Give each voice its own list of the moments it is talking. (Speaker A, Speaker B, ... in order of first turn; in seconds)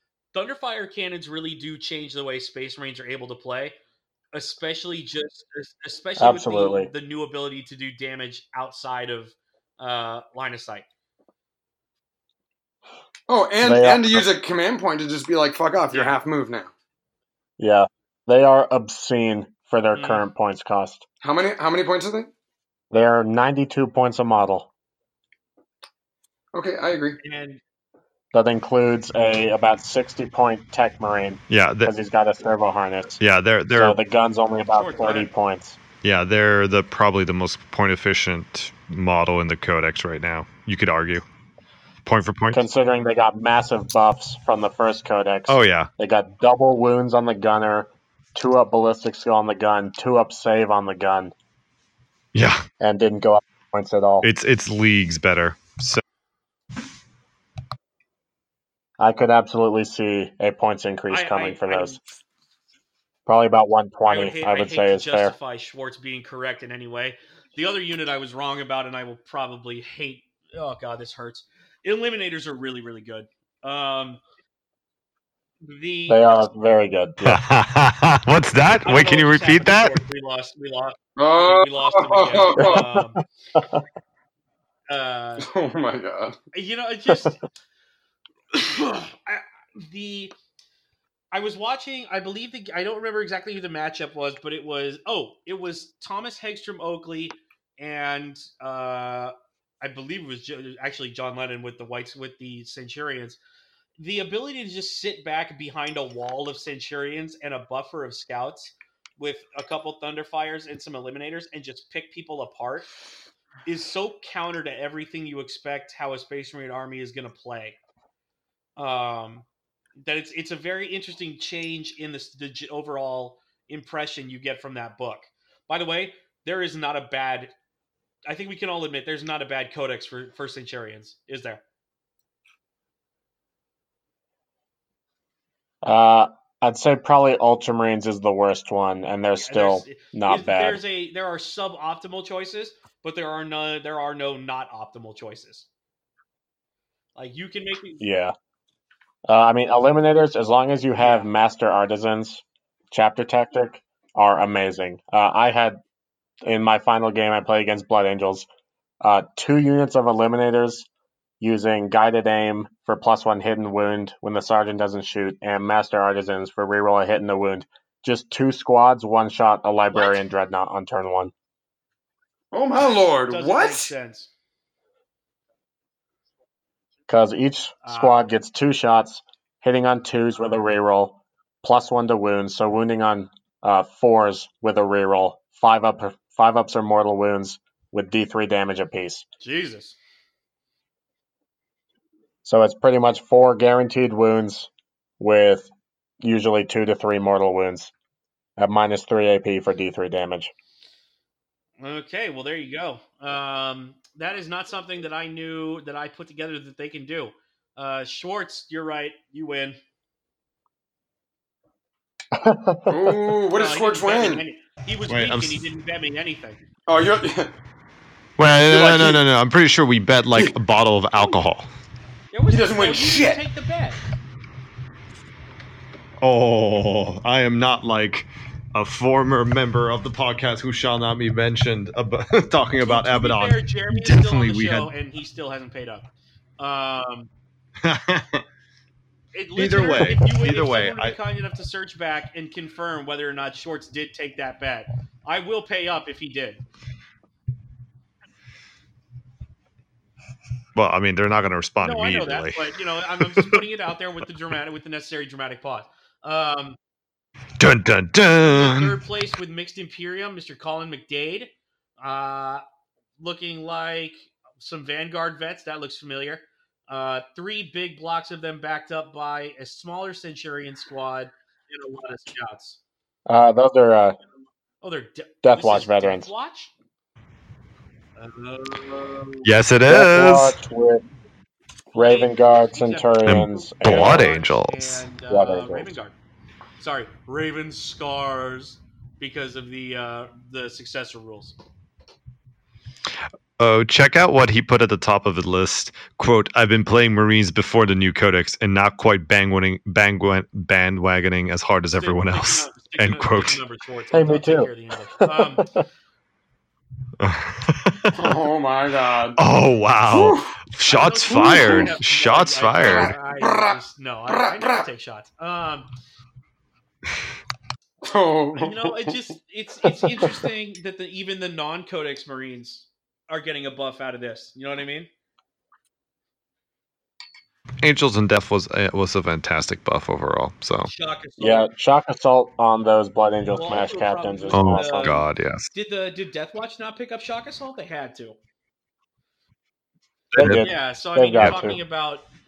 Speaker A: 0.3-3.8, 4.3-10.9, 15.9-16.2, 19.9-20.2, 27.2-27.6, 34.7-35.3, 61.1-62.0, 64.1-74.2, 75.6-76.5, 78.8-83.2, 84.9-85.5, 86.5-87.4, 88.5-90.3, 91.3-103.4, 104.0-112.9, 113.7-117.8, 118.8-119.5, 120.0-127.5, 128.3-131.6, 139.4-145.7, 147.2-148.0, 151.0-151.3, 169.9-170.2, 172.8-174.3, 177.8-178.2, 189.4-190.0, 201.8-209.8, 213.6-216.6, 222.3-224.0, 232.8-236.1, 236.6-237.3, 239.3-246.6, 251.8-256.8, 258.4-262.6, 263.2-272.8, 274.8-276.7, 278.2-279.5, 281.9-286.1, 286.8-291.6, 301.9-305.7, 310.9-315.9, 318.6-325.1, 330.9-331.7, 333.5-338.4, 340.4-342.2
Speaker B: 6.2-6.9, 13.6-14.2, 17.6-21.1, 22.9-24.7, 28.3-33.2, 33.7-35.8, 42.5-51.3, 52.8-54.3, 59.0-62.0, 63.2-65.3, 76.1-77.4, 82.6-83.0, 83.6-83.8, 135.8-140.8, 148.0-148.3, 149.3-155.8, 156.4-158.5, 159.0-160.9, 161.4-171.3, 177.1-189.2, 192.4-197.9, 198.6-200.5, 212.3-213.2, 273.3-274.2, 275.4-276.3, 279.9-281.0, 281.9-284.3, 285.3-285.9, 304.1-305.9, 331.4-335.2, 340.4-341.8
Speaker C: 13.3-16.7, 21.2-22.3, 26.5-27.2, 81.2-82.8, 85.4-86.4, 172.5-173.9, 212.9-214.4, 216.9-217.5, 218.7-219.2, 222.5-223.4, 308.1-309.4, 310.1-310.6, 311.3-311.9, 312.8-313.8, 314.3-314.8, 318.0-319.1
Speaker D: 31.5-31.9, 33.2-34.0, 36.0-41.2, 42.0-42.6, 45.5-45.9, 52.3-52.6, 54.2-56.0, 77.2-79.9, 215.1-215.6, 218.4-221.7, 226.2-234.9, 237.8-238.4, 239.6-241.2, 250.8-252.6, 253.2-253.6, 257.6-258.9, 279.4-280.6, 283.2-285.1, 293.6-303.6, 307.2-308.2, 309.4-313.1, 327.8-330.9, 334.5-335.7, 340.3-340.7, 341.4-341.7